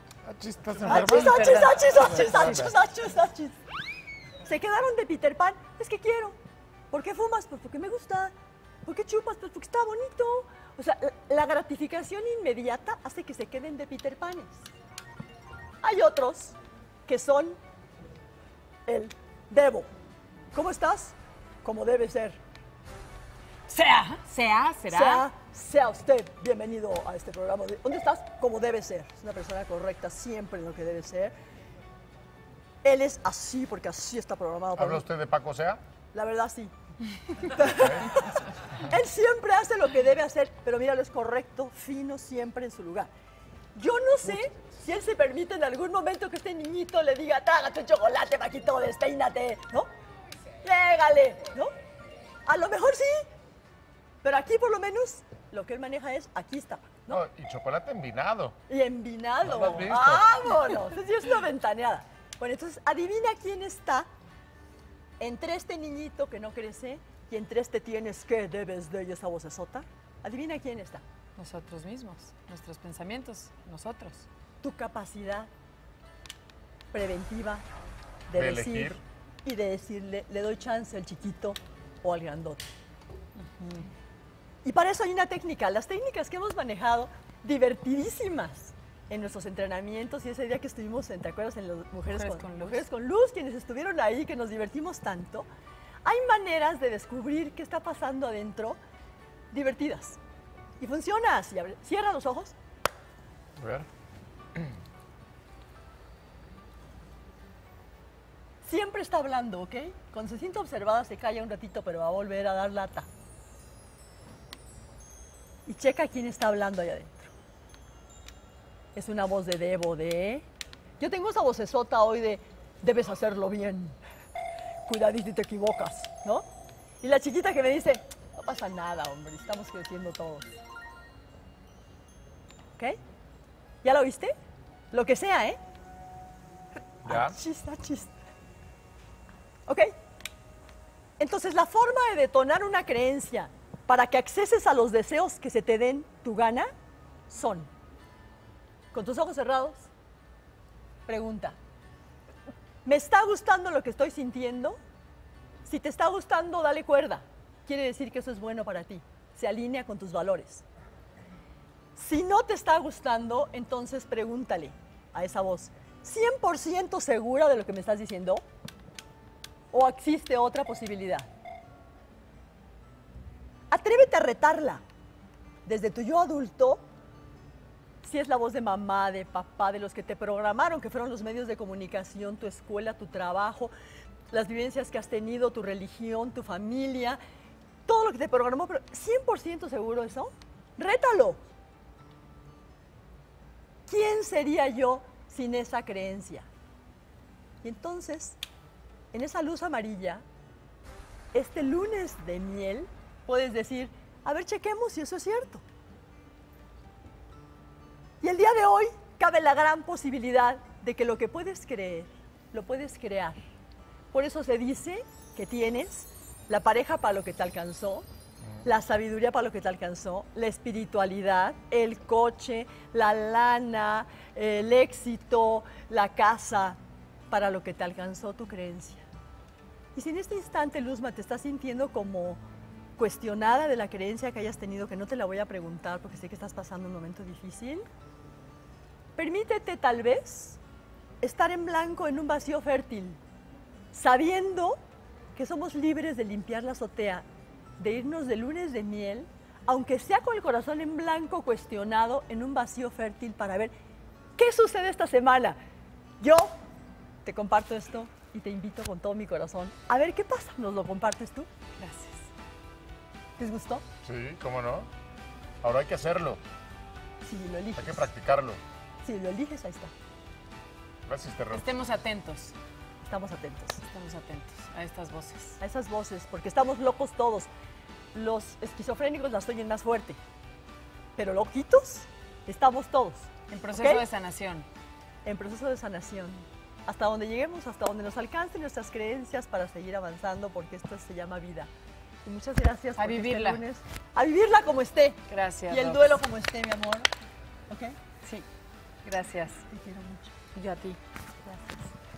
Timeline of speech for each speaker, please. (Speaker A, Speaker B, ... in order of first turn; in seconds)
Speaker A: 0.3-1.6, 34.8-35.8, 37.7-38.1, 57.1-58.6, 59.4-60.4, 78.3-79.0, 103.6-103.9, 137.1-137.4, 264.0-264.9, 265.6-266.4, 267.8-268.6, 271.1-271.6
Speaker B: 0.9-3.6, 4.4-6.4, 6.9-8.3, 8.8-14.7, 15.8-16.6, 17.1-17.6, 18.9-19.9, 20.5-22.4, 24.9-31.3, 32.8-35.1, 36.1-36.7, 37.3-43.1, 43.8-49.9, 50.6-51.7, 52.5-53.3, 54.2-57.2, 58.7-64.1, 65.2-71.0, 74.6-75.5, 76.9-77.6, 78.3-82.7, 84.6-95.5, 96.0-98.8, 99.5-100.2, 100.8-102.5, 108.6-113.1, 115.7-117.3, 119.0-120.5, 121.0-124.0, 124.9-126.5, 127.0-130.6, 133.8-134.3, 134.9-135.6, 137.1-138.1, 141.2-146.7, 147.3-147.7, 148.9-149.9, 151.1-151.6, 152.8-154.8, 155.7-160.6, 162.0-168.4, 169.7-171.3, 173.7-174.8, 175.7-176.8, 178.0-183.7, 184.3-187.2, 187.9-191.4, 193.9-196.5, 197.6-198.4, 199.1-200.2, 201.3-205.6, 208.2-213.4, 214.1-218.1, 218.6-226.8, 227.3-229.1, 229.9-232.4, 233.0-237.8, 239.2-240.6, 241.2-243.2, 243.9-244.8, 245.4-247.3, 247.8-253.7, 254.4-255.6, 256.2-256.5, 257.2-261.5, 263.4-263.8, 267.2-268.1, 269.0-269.9, 273.1-273.8, 275.6-277.5, 278.1-280.2, 281.2-284.1, 285.2-291.7, 292.2-297.1, 297.7-298.0, 299.7-300.4, 301.4-301.9
Speaker C: 0.9-2.5, 23.7-25.2, 71.4-74.3, 83.4-83.9, 92.1-92.9, 261.8-262.3, 271.5-272.6, 273.9-275.6, 283.5-284.7, 293.0-293.6, 295.3-296.2, 299.0-299.6, 300.5-301.0